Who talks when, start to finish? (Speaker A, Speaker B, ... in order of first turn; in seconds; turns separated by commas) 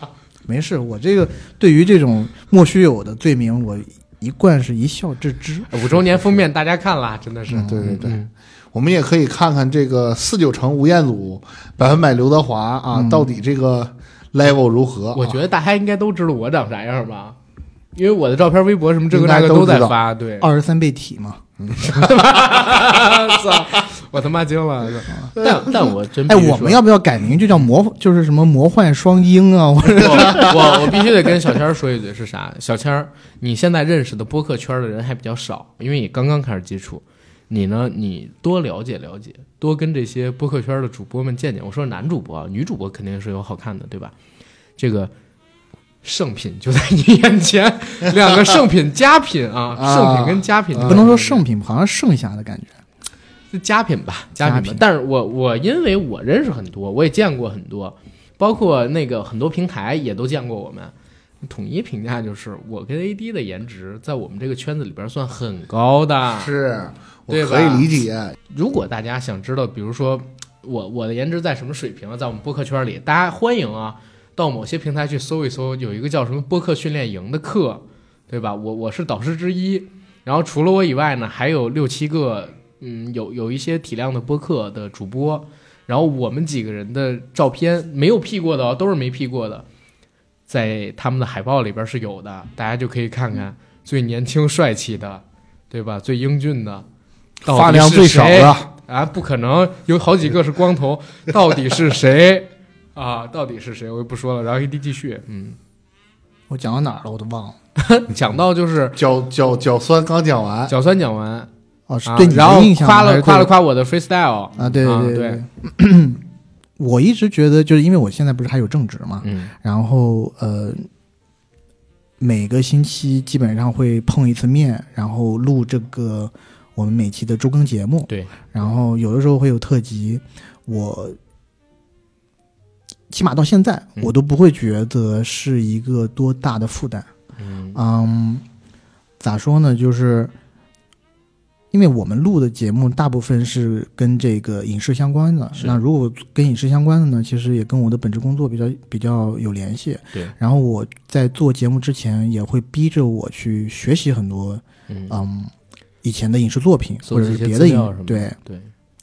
Speaker A: 0.5-5.9, Speaker B: 5.7-8.3, Speaker A: 7.5-7.8, Speaker C: 7.5-8.2, Speaker C: 8.7-15.4, Speaker A: 12.9-13.3, Speaker B: 15.1-17.4, Speaker B: 17.9-20.5, Speaker A: 19.3-19.9, Speaker A: 20.4-21.5, Speaker C: 21.6-22.2, Speaker B: 21.8-26.8, Speaker A: 26.3-30.9, Speaker B: 30.0-44.1, Speaker B: 44.8-45.1, Speaker B: 46.0-51.4, Speaker C: 49.8-51.0, Speaker A: 50.8-52.7, Speaker B: 53.5-66.5, Speaker A: 54.4-54.8, Speaker C: 66.4-68.3, Speaker B: 67.3-67.9, Speaker B: 68.5-89.7, Speaker B: 90.5-96.8, Speaker B: 97.4-105.6, Speaker A: 97.5-98.6, Speaker C: 97.6-98.6, Speaker A: 106.5-107.5, Speaker B: 107.8-109.0, Speaker C: 109.0-110.7, Speaker B: 110.7-111.5, Speaker A: 111.9-113.5, Speaker B: 112.0-115.4, Speaker A: 114.6-116.2, Speaker A: 116.8-120.9, Speaker B: 119.2-119.5, Speaker A: 122.2-131.2, Speaker B: 128.1-128.3, Speaker A: 133.1-137.1, Speaker B: 137.4-137.8, Speaker A: 137.7-138.4, Speaker A: 139.2-140.3, Speaker A: 141.7-155.5, Speaker B: 154.9-155.2, Speaker A: 156.0-158.3, Speaker B: 157.0-158.7